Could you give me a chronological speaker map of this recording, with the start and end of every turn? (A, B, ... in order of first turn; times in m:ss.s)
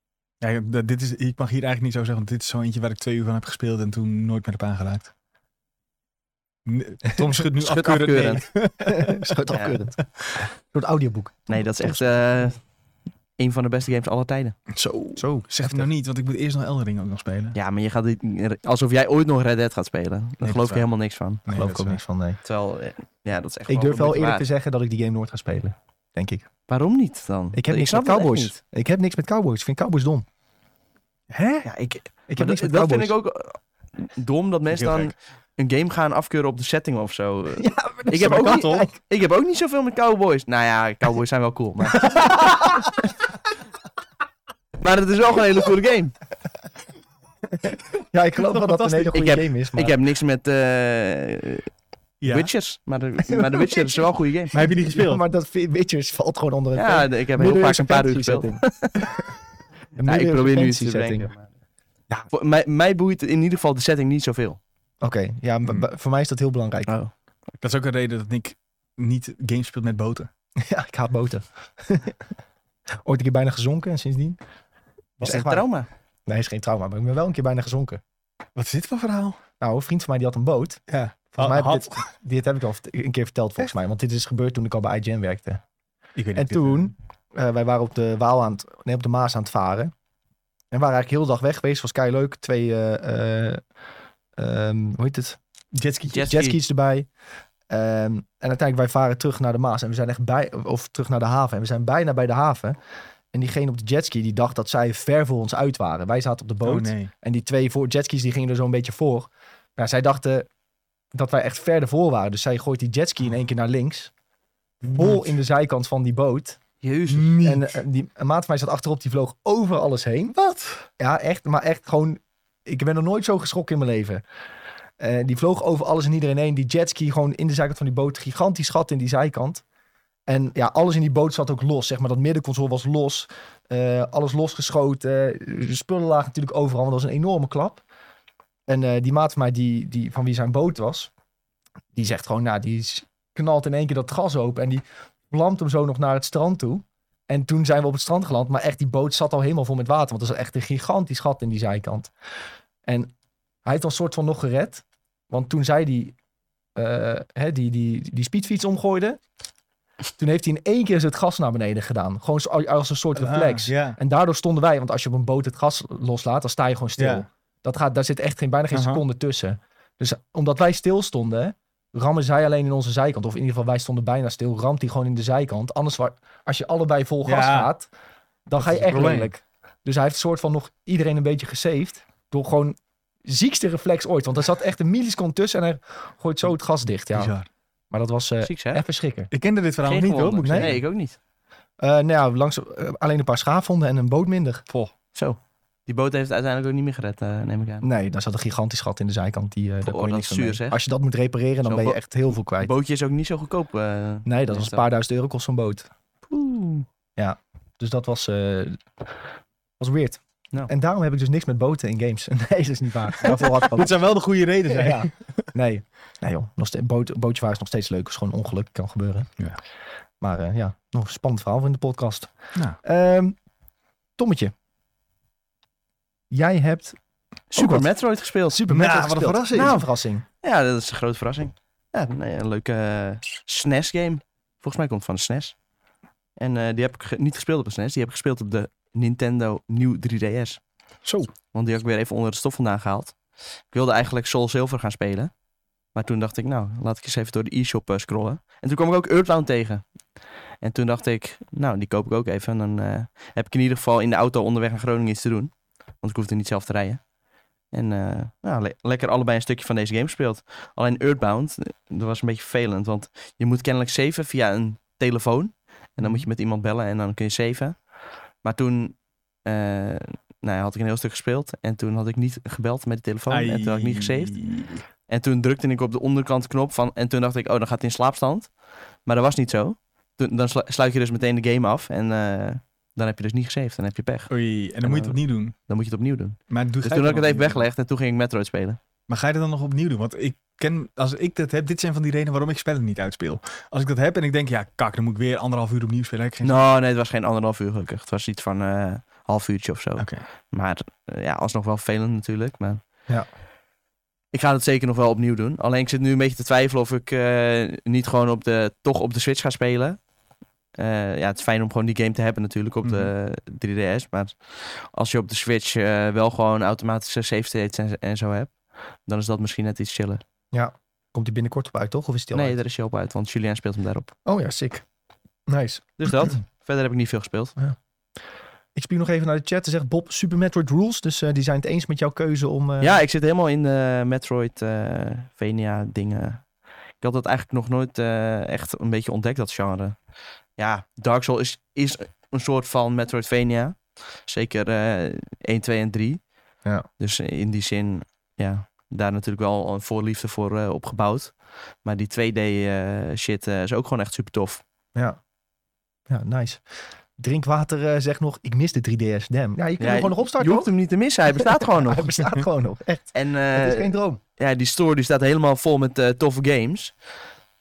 0:00.4-0:05.1 A
0:06.6-0:09.4 A
0:07.6-0:08.5 B
0:08.8-0:12.0 C
0:09.5-0:09.8 B
0:11.5-0:12.6 B
0:13.4-0:14.6 B
0:14.7-0:17.6 A
0:15.2-0:15.9 C
0:17.5-0:21.4 B
0:20.4-0:20.9 A
0:21.4-0:22.0 A
0:21.5-0:22.4 C
0:22.4-0:24.5 B
0:23.7-0:26.4 C
0:26.7-0:28.5 B
0:27.5-0:30.2 C
0:31.3-0:31.7 A
0:31.6-0:42.7 B
0:32.3-0:33.1 C
0:34.7-0:35.1 A
0:37.6-0:38.9 C
0:38.1-0:38.9 A
0:42.0-0:42.8 C
0:44.8-0:46.1 B
0:47.6-0:49.9 C
0:48.4-0:49.3 A
0:49.1-0:51.7 B
0:52.2-0:52.5 A
0:52.2-0:54.6 B
0:53.3-0:59.2 C
0:54.5-0:55.2 A
0:56.7-0:59.0 B
1:00.0-1:01.3 C
1:00.0-1:01.5 B
1:02.3-1:04.6 B
1:05.0-1:06.9 C
1:07.6-1:10.3 A
1:10.6-1:12.2 C
1:13.0-1:14.4 C
1:15.2-1:15.6 C
1:15.2-1:15.9 B
1:16.3-1:18.0 C
1:18.6-1:19.4 A
1:19.6-1:25.6 C
1:20.9-1:22.0 A
1:26.2-1:26.9 A
1:26.3-1:29.9 C
1:30.7-1:33.6 C
1:34.4-1:35.4 C
1:35.7-1:36.2 A
1:36.1-1:36.6 B
1:36.2-1:37.1 C
1:37.7-1:42.8 C
1:43.3-1:50.5 C
1:46.6-1:47.1 A
1:51.1-1:54.1 C
1:54.8-1:55.4 A
1:54.9-1:56.6 C
1:56.8-1:57.3 B
1:57.1-1:57.8 A
1:57.4-2:04.2 C
2:05.0-2:09.6 C
2:10.3-2:17.8 C
2:18.7-2:21.1 C
2:21.9-2:32.1 C
2:33.6-2:36.1 C
2:36.8-2:39.2 C
2:40.2-2:57.9 C
2:43.1-2:44.0 A
2:47.0-2:47.2 A
2:48.7-2:49.0 A
2:57.2-2:57.7 A
2:58.5-3:07.3 C
2:58.6-2:59.3 A
3:07.1-3:07.5 A
3:07.9-3:09.3 C
3:08.4-3:08.8 B
3:09.3-3:10.8 A
3:09.8-3:11.2 B
3:10.4-3:10.8 C
3:11.8-3:14.6 C
3:15.1-3:17.8 B
3:17.8-3:22.7 C
3:19.8-3:20.8 B
3:21.6-3:22.0 B
3:22.6-3:24.8 B
3:24.2-3:25.9 C
3:26.3-3:26.9 B
3:27.2-3:28.8 C
3:29.8-3:34.0 C
3:33.2-3:35.4 A
3:34.7-3:39.3 C
3:40.2-3:43.4 C
3:44.2-3:44.5 C
3:46.3-3:47.0 C
3:47.5-3:48.6 B
3:47.5-3:47.9 C
3:48.5-3:50.2 C
3:48.7-3:49.8 A
3:49.5-3:49.8 B
3:50.4-3:55.6 B
3:56.4-4:00.6 B
4:01.0-4:01.3 A
4:01.5-4:03.2 B
4:03.7-4:05.3 B
4:05.9-4:09.8 B
4:10.6-4:17.0 B
4:17.7-4:27.8 B
4:26.0-4:26.3 A
4:28.4-4:34.4 B
4:33.3-4:34.8 A
4:35.1-4:38.5 B
4:39.0-4:44.3 B
4:44.3-4:45.5 A
4:44.8-4:48.8 B
4:46.5-4:47.6 A
4:49.1-4:56.6 A
4:56.4-5:02.8 B
5:00.0-5:00.2 A
5:04.3-5:10.0 B
5:10.8-5:20.2 B
5:12.8-5:13.1 A
5:20.5-5:22.6 C
5:22.3-5:24.1 B
5:24.2-5:24.8 C
5:25.5-5:26.3 C
5:26.0-5:27.5 B
5:28.7-5:33.0 C
5:32.8-5:36.4 B
5:37.0-5:40.0 B
5:40.6-5:46.2 B
5:47.0-5:54.6 B
5:56.1-5:56.6 C
5:57.2-6:00.7 C
5:59.8-6:02.1 B
6:01.4-6:04.2 C
6:03.1-6:06.9 B